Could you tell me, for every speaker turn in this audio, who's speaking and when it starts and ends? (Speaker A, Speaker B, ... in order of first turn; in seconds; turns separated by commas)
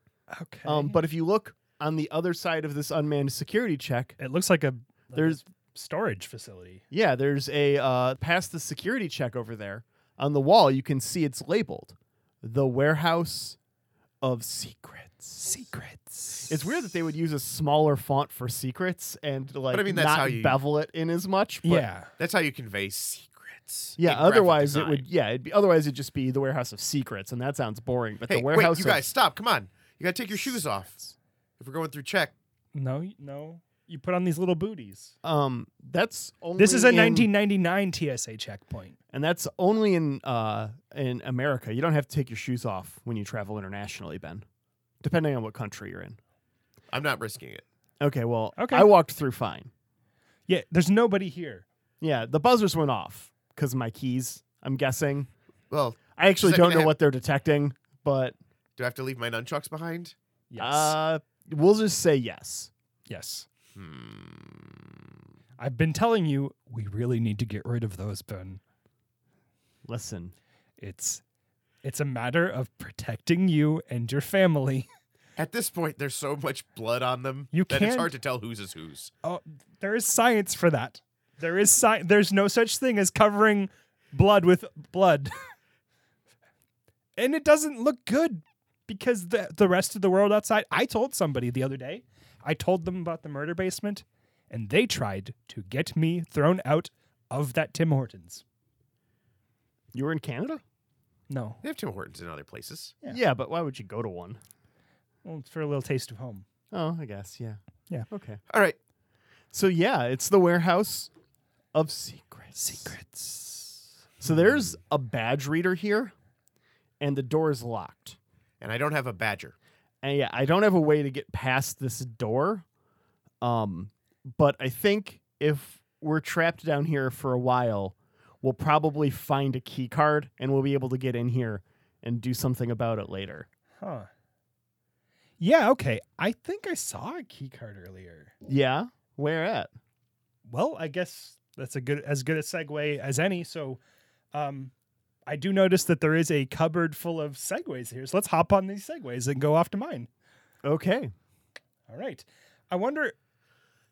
Speaker A: 0.3-1.0, Speaker B: 0.6-4.2, Speaker A: 4.2-6.8, Speaker B: 5.1-5.4, Speaker B: 6.9-13.6, Speaker B: 14.2-15.4, Speaker A: 15.4-16.6, Speaker B: 16.5-21.9, Speaker C: 19.7-20.6, Speaker A: 21.6-22.1, Speaker C: 22.2-25.1, Speaker B: 24.0-29.0, Speaker C: 28.3-31.1, Speaker C: 31.6-32.3, Speaker A: 32.7-35.1, Speaker B: 35.2-37.3, Speaker A: 36.6-39.0, Speaker B: 39.1-44.4, Speaker B: 45.0-46.2, Speaker C: 46.9-47.6, Speaker B: 48.0-49.7, Speaker A: 48.6-48.9, Speaker A: 50.5-51.6, Speaker B: 52.0-55.3, Speaker C: 55.7-56.9, Speaker B: 56.1-58.4, Speaker C: 58.8-60.1, Speaker A: 60.5-61.0, Speaker B: 60.6-62.7, Speaker A: 63.1-63.5, Speaker C: 63.7-64.8, Speaker A: 65.6-68.6, Speaker B: 69.8-70.3, Speaker A: 70.8-71.2, Speaker A: 71.8-74.9, Speaker C: 75.4-79.1, Speaker A: 77.5-78.1, Speaker A: 79.2-85.3, Speaker A: 87.2-98.4, Speaker B: 99.9-100.6, Speaker A: 101.3-101.6, Speaker C: 101.6-102.9, Speaker B: 103.1-104.4, Speaker A: 105.2-106.4, Speaker B: 106.7-107.6, Speaker B: 108.1-108.4, Speaker C: 108.5-108.8, Speaker B: 109.5-111.1, Speaker B: 111.7-112.9, Speaker A: 112.5-113.8, Speaker B: 114.2-116.1, Speaker B: 117.0-118.2, Speaker C: 118.6-119.5, Speaker B: 120.0-122.6, Speaker B: 123.4-133.5, Speaker A: 133.8-134.1, Speaker A: 135.4-138.3, Speaker B: 138.4-139.7, Speaker A: 140.5-143.8, Speaker A: 144.3-144.7, Speaker A: 145.2-150.1, Speaker B: 150.6-151.1, Speaker A: 151.9-153.1